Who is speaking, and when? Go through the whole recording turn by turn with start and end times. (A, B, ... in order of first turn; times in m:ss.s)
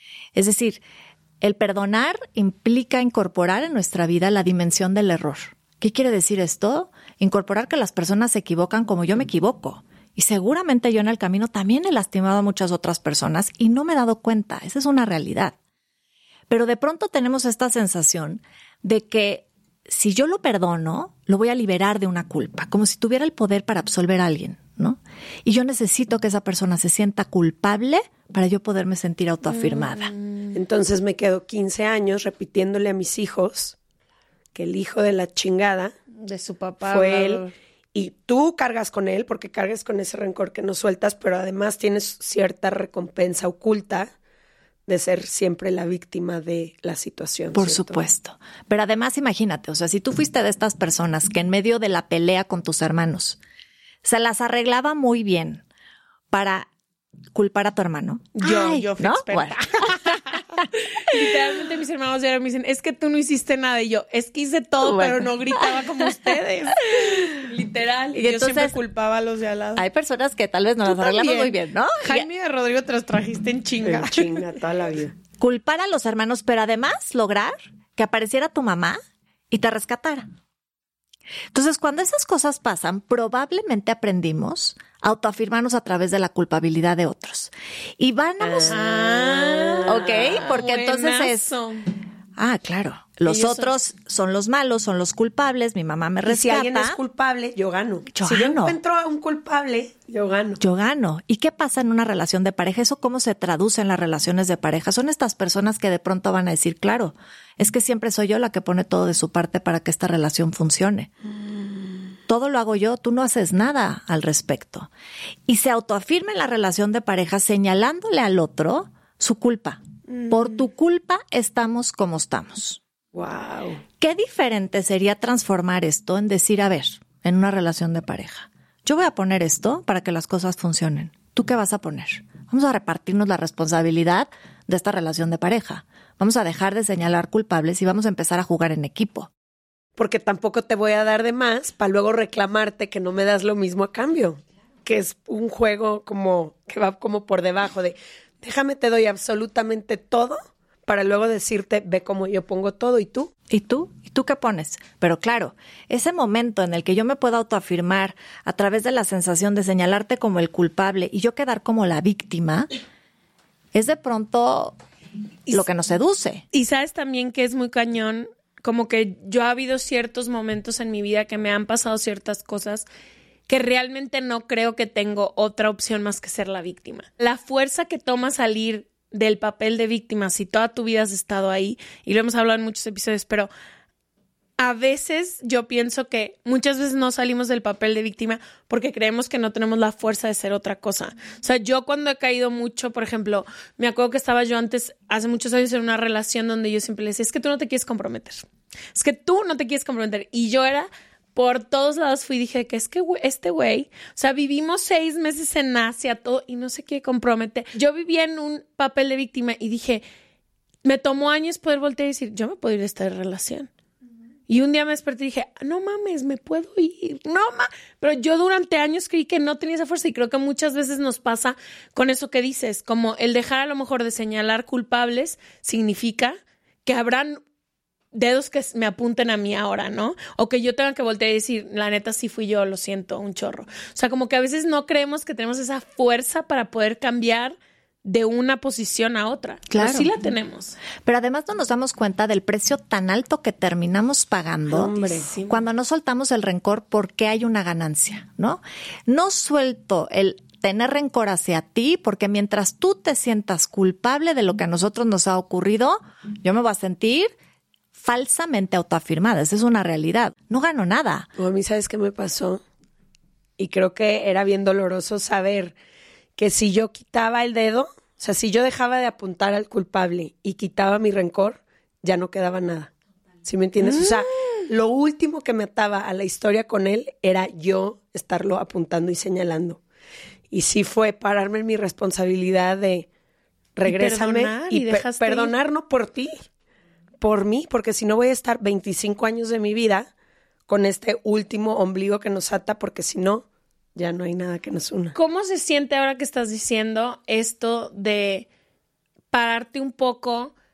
0:00.3-0:00.8 A
0:01.4-0:15.6 A
0:16.5-0:30.1 A
0:29.5-0:30.6 B
0:30.5-0:33.8 C
0:34.6-0:35.9 C
0:36.2-0:37.5 B
0:36.8-0:37.4 C
0:37.9-0:44.1 C
0:44.9-0:48.0 C
0:47.5-0:53.4 A
0:54.0-0:55.6 A
0:56.3-0:56.7 A
0:57.3-1:00.4 A
0:58.4-1:09.8 B
1:04.8-1:06.4 A
1:06.9-1:07.4 A
1:08.2-1:08.8 A
1:09.8-1:12.3 A
1:10.8-1:14.3 B
1:13.8-1:15.1 C
1:15.4-1:19.0 A
1:19.5-1:20.3 A
1:21.5-1:28.8 A
1:28.4-1:30.0 C
1:28.7-1:31.9 B
1:29.8-1:31.5 A
1:32.4-1:37.0 A
1:33.3-1:33.7 B
1:36.3-1:40.6 C
1:38.1-1:38.8 A
1:40.6-1:51.1 A
1:52.3-1:54.9 A
1:55.5-2:02.8 A
2:03.1-2:03.8 C
2:04.0-2:19.3 A
2:20.0-2:33.3 C
2:33.5-2:42.7 A
2:43.7-2:44.8 A
2:45.5-2:46.4 A
2:46.5-2:52.9 B
2:53.5-3:03.5 B
3:04.6-3:30.0 B
3:30.8-3:33.7 B
3:34.5-3:47.4 B
3:48.1-4:00.8 B
3:59.7-4:00.1 A
4:01.0-4:17.3 A
4:04.7-4:05.3 C
4:05.0-4:05.6 B
4:18.0-4:21.3 A
4:21.4-4:22.6 C
4:23.6-4:25.8 C
4:26.4-4:32.9 C
4:33.4-4:39.8 C
4:33.8-4:34.6 B
4:40.5-4:43.1 C
4:43.8-4:46.3 C
4:43.9-4:45.5 B
4:47.2-4:50.1 C
4:50.7-4:53.4 C
4:54.0-4:55.2 C
4:55.2-4:58.5 B
4:59.3-5:00.5 B